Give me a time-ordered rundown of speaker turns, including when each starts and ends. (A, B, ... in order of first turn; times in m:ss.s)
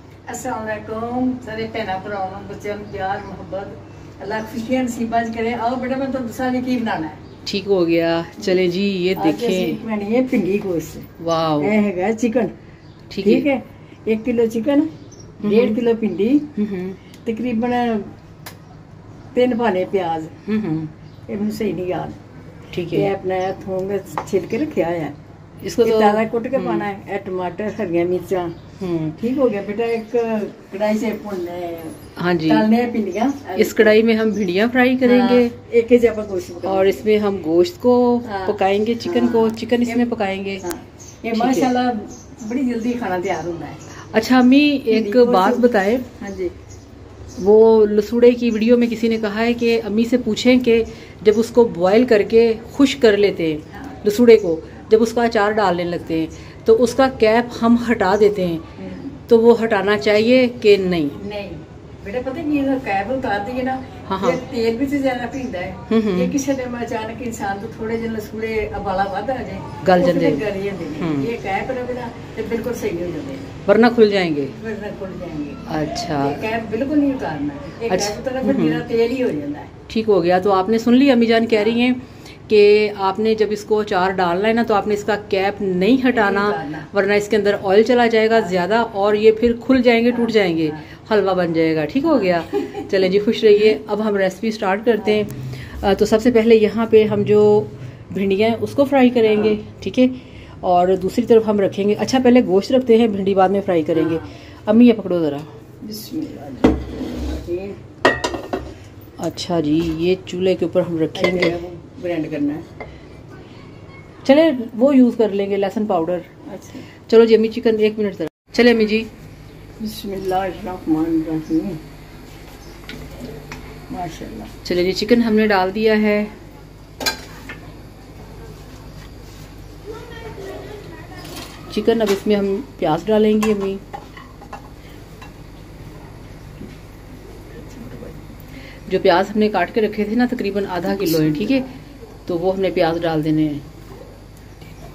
0:00.3-0:07.2 A
0:07.4-0:09.8 B
0:09.2-0:11.1 A
0:11.2-0:11.7 B
0:11.6-0:12.5 A
0:13.1-0:13.5 B
0:13.2-0:14.9 A
0:15.4-0:15.8 B
0:15.4-0:16.5 A
0:16.5-0:17.0 B
0:17.2-0:18.1 A
0:19.3-0:20.3 A
0:20.4-0:20.9 B
0:21.3-0:22.2 A
0:22.7-0:23.1 B
0:22.9-0:25.1 A
0:25.6-0:26.9 B
0:25.8-0:28.5 A
0:28.8-0:29.2 B
0:29.2-0:34.0 A
0:32.2-0:32.7 B
0:33.6-0:35.5 B
0:35.0-0:37.0 A
0:36.6-0:40.6 B
0:38.2-0:43.8 A
0:41.3-0:41.7 B
0:44.1-0:46.0 B
0:44.9-0:46.5 A
0:47.4-0:58.6 B
0:58.8-0:59.1 A
0:59.3-1:01.2 B
1:01.1-1:13.5 A
1:04.1-1:04.4 B
1:05.9-1:06.4 B
1:09.8-1:11.3 B
1:13.6-1:14.6 B
1:14.5-1:19.7 A
1:15.6-1:16.4 B
1:17.9-1:18.8 B
1:19.9-1:45.5 B
1:26.1-1:26.9 A
1:45.8-1:47.8 A
1:49.2-1:51.6 B
1:51.1-1:52.6 A
1:54.2-1:56.3 B
1:56.4-1:56.8 A
1:57.1-1:59.1 B
1:59.8-2:01.8 A
2:03.9-2:04.5 A
2:04.6-2:06.3 B
2:11.7-2:13.8 B
2:17.6-2:18.2 A
2:18.9-2:21.7 B
2:22.3-2:23.6 B